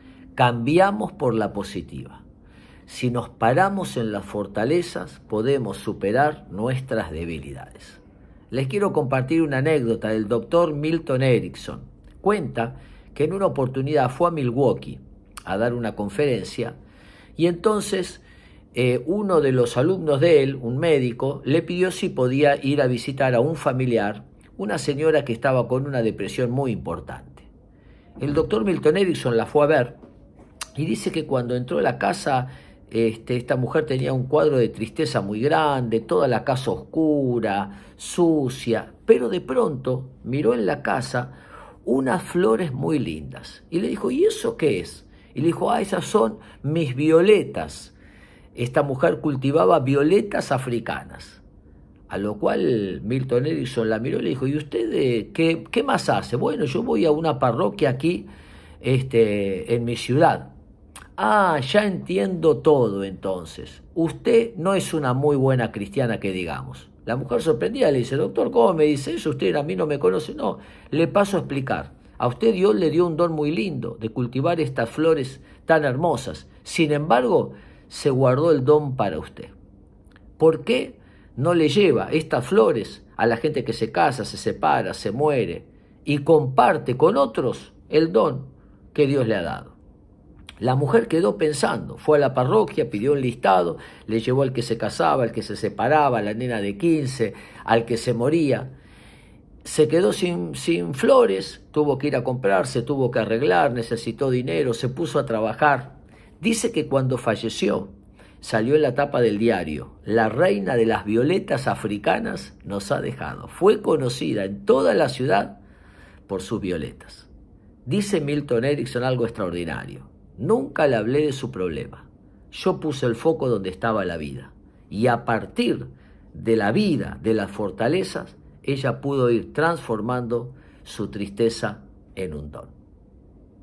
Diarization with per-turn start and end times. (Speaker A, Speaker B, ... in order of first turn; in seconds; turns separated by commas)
Speaker A: 0.3-2.2, Speaker A: 2.9-8.0, Speaker A: 8.5-16.8, Speaker A: 17.4-18.2, Speaker A: 18.7-27.5, Speaker A: 28.2-30.0, Speaker A: 30.8-48.0, Speaker A: 48.5-51.4, Speaker A: 52.1-58.3, Speaker A: 58.8-60.5, Speaker A: 61.1-79.5, Speaker A: 80.4-89.8, Speaker A: 90.6-98.7, Speaker A: 99.6-115.6, Speaker A: 116.2-117.3, Speaker A: 117.8-132.7